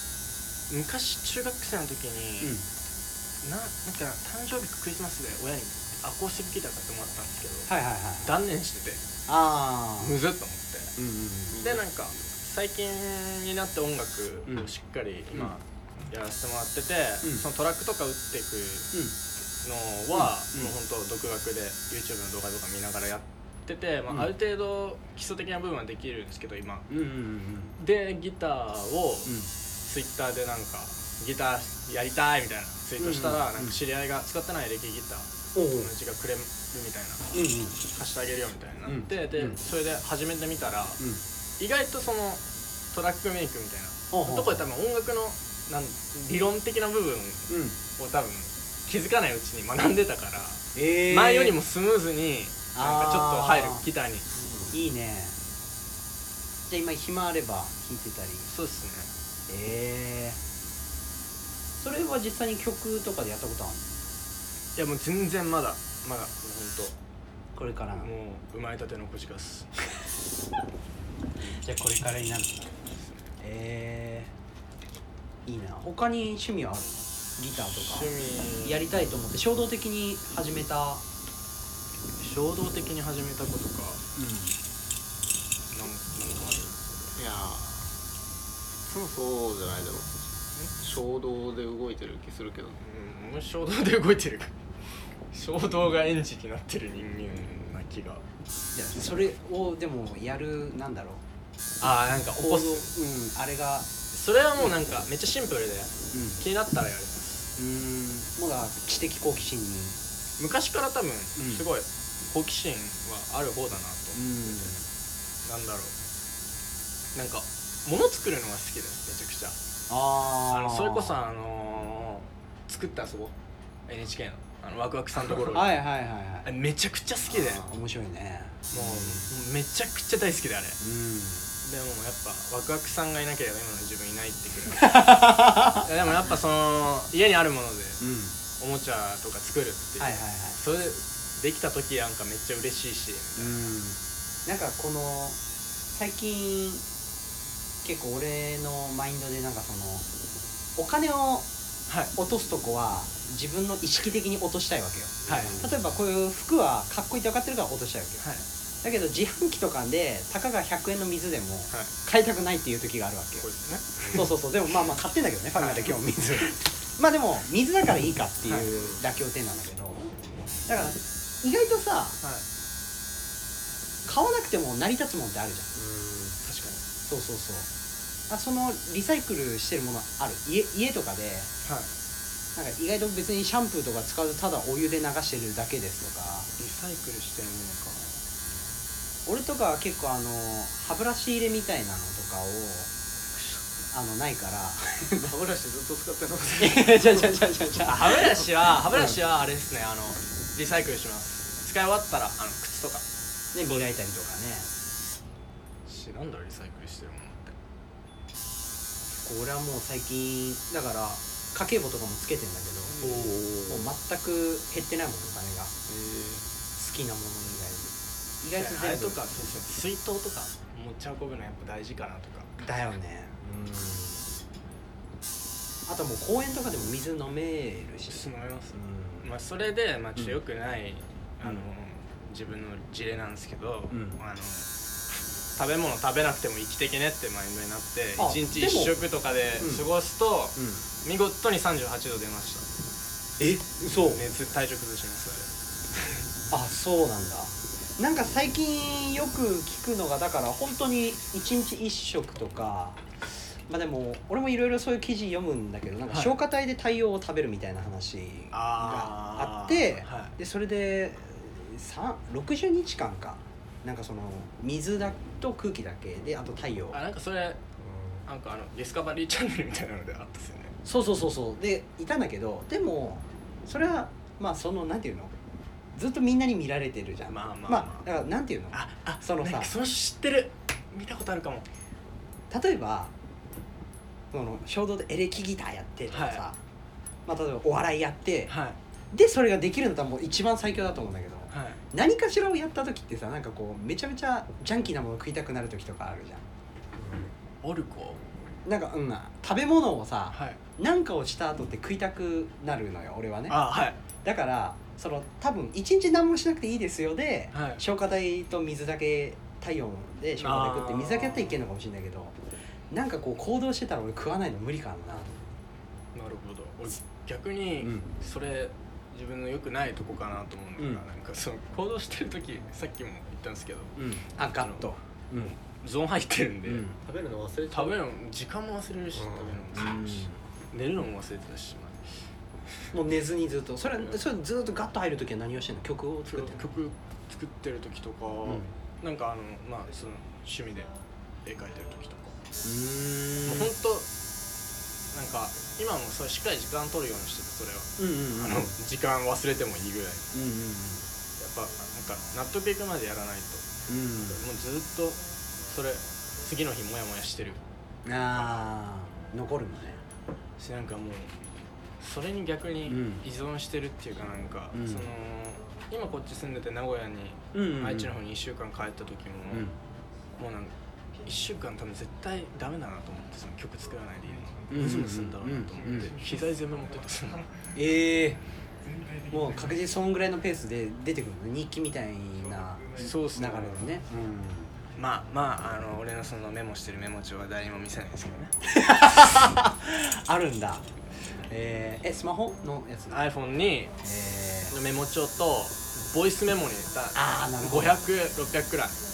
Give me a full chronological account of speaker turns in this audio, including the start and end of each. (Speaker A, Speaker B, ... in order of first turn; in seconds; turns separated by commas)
Speaker A: 0.7-2.6, Speaker B: 2.4-2.7, Speaker A: 3.4-7.7, Speaker B: 7.7-8.3, Speaker A: 8.2-9.0, Speaker B: 9.3-10.1, Speaker A: 10.0-10.9, Speaker B: 11.0-11.6, Speaker C: 11.5-11.8, Speaker A: 11.5-19.0, Speaker A: 19.6-26.9, Speaker B: 20.1-20.7, Speaker B: 26.9-27.8, Speaker A: 27.8-37.3, Speaker B: 33.0-33.8, Speaker B: 35.5-35.9, Speaker B: 37.3-37.8, Speaker A: 37.9-41.0, Speaker B: 38.9-39.6, Speaker A: 41.6-42.4, Speaker A: 42.9-54.3, Speaker B: 44.1-44.6, Speaker B: 47.5-47.8, Speaker B: 50.8-51.6, Speaker B: 52.8-53.8, Speaker C: 54.4-54.7, Speaker B: 54.7-55.4, Speaker B: 56.7-58.5, Speaker A: 58.5-59.1, Speaker B: 59.5-60.4, Speaker B: 61.8-63.9, Speaker A: 64.8-67.0, Speaker B: 67.5-68.1, Speaker A: 68.0-70.0, Speaker B: 71.5-72.7, Speaker A: 73.0-73.2, Speaker B: 73.4-74.3, Speaker B: 75.5-81.0, Speaker A: 77.8-78.9, Speaker A: 82.2-84.0, Speaker B: 84.2-84.6, Speaker A: 85.7-87.2, Speaker C: 87.2-87.9, Speaker C: 88.8-90.1, Speaker C: 90.8-92.8, Speaker A: 92.8-94.5, Speaker A: 95.3-98.2, Speaker B: 98.7-101.2, Speaker A: 101.8-102.9, Speaker B: 102.3-103.9, Speaker A: 104.1-107.5, Speaker B: 106.1-106.4, Speaker B: 107.6-110.0, Speaker A: 110.4-114.7, Speaker B: 111.4-111.7, Speaker B: 114.2-114.9, Speaker A: 115.4-115.9, Speaker A: 117.2-119.6, Speaker B: 119.9-121.2, Speaker A: 120.5-123.3, Speaker A: 123.9-125.7, Speaker B: 125.3-126.5, Speaker A: 126.4-127.7, Speaker B: 127.3-129.3, Speaker A: 128.7-130.8, Speaker B: 130.8-131.5, Speaker A: 131.6-138.0, Speaker B: 134.8-136.2, Speaker B: 138.0-138.4, Speaker A: 138.6-143.7, Speaker B: 140.0-140.6, Speaker B: 143.4-145.4, Speaker B: 145.9-146.8, Speaker B: 147.8-150.1, Speaker B: 150.8-151.5, Speaker A: 151.9-152.1, Speaker B: 152.2-158.3, Speaker A: 155.3-155.6, Speaker C: 155.3-155.8, Speaker A: 158.2-158.5, Speaker B: 158.8-163.5, Speaker A: 163.4-164.3, Speaker B: 164.1-170.0, Speaker A: 165.6-166.0, Speaker A: 168.5-168.9, Speaker B: 170.7-172.2, Speaker B: 174.1-175.7, Speaker C: 175.8-176.4, Speaker A: 176.4-176.8, Speaker B: 177.1-177.7, Speaker B: 178.3-181.5, Speaker A: 181.6-181.9, Speaker B: 182.6-186.5, Speaker A: 186.6-188.2, Speaker B: 189.3-192.9, Speaker C: 193.3-193.6, Speaker B: 193.9-195.3, Speaker C: 195.2-197.4, Speaker B: 196.6-199.2, Speaker A: 197.8-203.1, Speaker B: 203.5-204.7, Speaker A: 205.9-207.6, Speaker B: 209.2-215.7, Speaker C: 213.0-213.9, Speaker C: 215.9-216.4, Speaker B: 216.8-219.2, Speaker A: 218.5-222.7, Speaker B: 222.6-223.4, Speaker C: 223.4-224.2, Speaker B: 225.9-228.2, Speaker A: 228.1-242.7, Speaker B: 228.8-229.2, Speaker B: 233.9-234.2, Speaker B: 238.2-239.0, Speaker B: 239.6-239.8, Speaker B: 240.6-240.8, Speaker B: 243.4-244.2, Speaker A: 243.9-246.3, Speaker B: 246.5-253.1, Speaker B: 253.7-267.0, Speaker A: 256.1-256.4, Speaker A: 258.5-260.4, Speaker A: 266.9-267.6, Speaker C: 267.9-268.2, Speaker A: 268.3-270.8, Speaker B: 270.9-275.3, Speaker B: 275.9-279.7, Speaker A: 277.3-278.1, Speaker A: 278.7-281.7, Speaker B: 282.5-283.1, Speaker B: 284.3-286.6, Speaker A: 286.1-286.5, Speaker B: 287.3-288.5, Speaker A: 288.5-288.8, Speaker B: 289.1-296.4, Speaker A: 291.5-291.8, Speaker A: 297.6-298.2, Speaker B: 298.6-303.6, Speaker A: 300.3-300.6, Speaker A: 303.5-304.0, Speaker B: 304.2-312.4, Speaker A: 307.5-307.8, Speaker A: 310.4-311.6, Speaker B: 312.9-315.4, Speaker A: 316.1-324.0, Speaker B: 317.8-318.1, Speaker B: 320.8-321.0, Speaker B: 324.0-325.6, Speaker A: 324.5-326.9, Speaker B: 326.7-327.0, Speaker C: 327.0-328.0, Speaker A: 327.7-332.0, Speaker C: 329.1-329.6, Speaker B: 329.7-330.4, Speaker B: 332.9-336.6, Speaker A: 336.3-340.9, Speaker A: 341.4-342.3, Speaker B: 342.6-343.7, Speaker A: 343.4-344.1, Speaker A: 345.1-350.3, Speaker B: 348.0-348.7, Speaker B: 350.3-351.1, Speaker A: 351.4-357.6, Speaker B: 353.9-354.4, Speaker B: 358.1-360.0, Speaker A: 358.3-358.6, Speaker A: 360.6-361.3, Speaker A: 362.0-369.7, Speaker B: 362.9-363.2, Speaker B: 364.7-365.1, Speaker B: 367.5-368.1, Speaker A: 370.4-377.5, Speaker B: 374.7-376.1, Speaker B: 377.8-378.4, Speaker B: 379.3-384.7, Speaker A: 382.9-383.9, Speaker A: 385.0-388.5, Speaker B: 388.6-390.9, Speaker B: 391.5-393.2, Speaker A: 393.1-393.9, Speaker B: 394.0-394.8, Speaker A: 394.7-399.0, Speaker B: 397.1-398.0